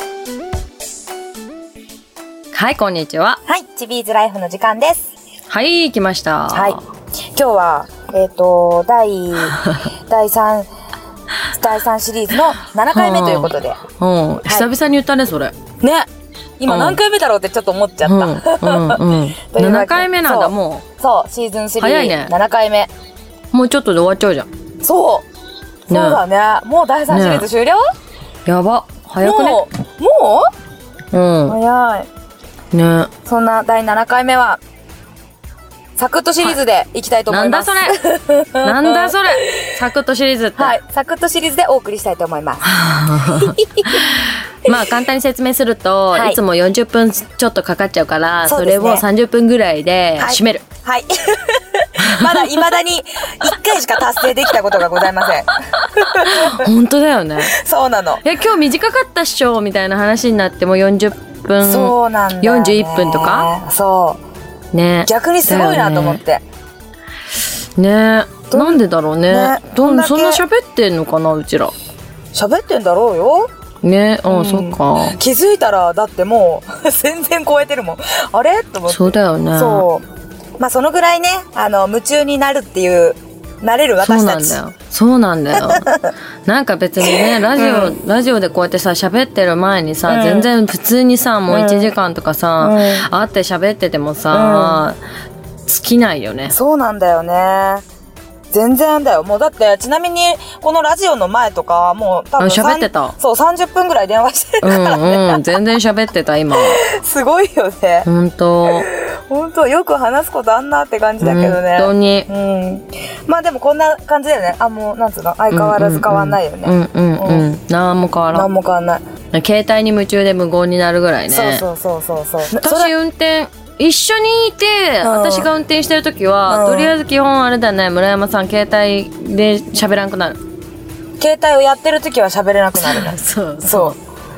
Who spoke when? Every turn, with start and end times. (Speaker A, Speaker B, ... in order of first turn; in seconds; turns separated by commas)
Speaker A: 2.5-3.4, Speaker B: 3.5-5.1, Speaker A: 5.5-6.8, Speaker B: 6.5-6.8, Speaker B: 7.3-10.7, Speaker A: 9.5-9.8, Speaker B: 11.5-13.8, Speaker A: 12.9-15.5, Speaker B: 15.8-16.1, Speaker B: 16.6-22.9, Speaker A: 16.7-17.0, Speaker A: 18.0-20.8, Speaker A: 21.8-22.3, Speaker A: 23.5-24.5, Speaker B: 24.8-25.2, Speaker A: 25.9-26.2, Speaker B: 25.9-27.8, Speaker A: 27.1-27.4, Speaker A: 28.4-29.6, Speaker B: 29.2-30.4, Speaker A: 31.1-31.6, Speaker B: 31.5-32.1, Speaker A: 32.7-33.1, Speaker B: 33.2-34.6, Speaker B: 36.0-39.7, Speaker A: 37.3-38.0, Speaker A: 38.6-40.8, Speaker B: 40.6-44.0, Speaker A: 42.6-50.6, Speaker B: 46.1-46.4, Speaker B: 48.5-49.0, Speaker B: 50.2-56.7, Speaker A: 52.0-52.6, Speaker A: 53.7-57.6, Speaker B: 57.4-58.2, Speaker A: 58.2-63.5, Speaker B: 61.6-64.2, Speaker A: 64.7-66.2, Speaker B: 65.0-66.4, Speaker A: 67.7-71.7, Speaker B: 68.5-70.4, Speaker B: 72.3-73.5, Speaker A: 73.8-75.2, Speaker B: 74.3-80.0, Speaker A: 78.9-79.8, Speaker B: 80.6-84.6, Speaker A: 84.0-85.9, Speaker B: 85.5-86.1, Speaker A: 86.5-95.0, Speaker B: 87.0-87.9, Speaker B: 90.1-90.5, Speaker B: 91.5-91.9, Speaker B: 92.6-93.1, Speaker B: 94.3-94.8, Speaker A: 95.7-96.5, Speaker B: 96.5-97.8, Speaker B: 98.5-105.6, Speaker A: 102.4-103.1, Speaker A: 104.6-106.8, Speaker B: 106.5-108.1, Speaker A: 108.0-108.9, Speaker B: 108.6-117.5, Speaker A: 111.2-112.3, Speaker A: 115.5-118.5, Speaker B: 118.3-119.0, Speaker A: 119.3-121.6, Speaker B: 121.3-122.9, Speaker A: 122.5-130.4, Speaker B: 125.0-125.5, Speaker B: 126.5-126.9, Speaker B: 131.2-134.0, Speaker A: 132.8-134.0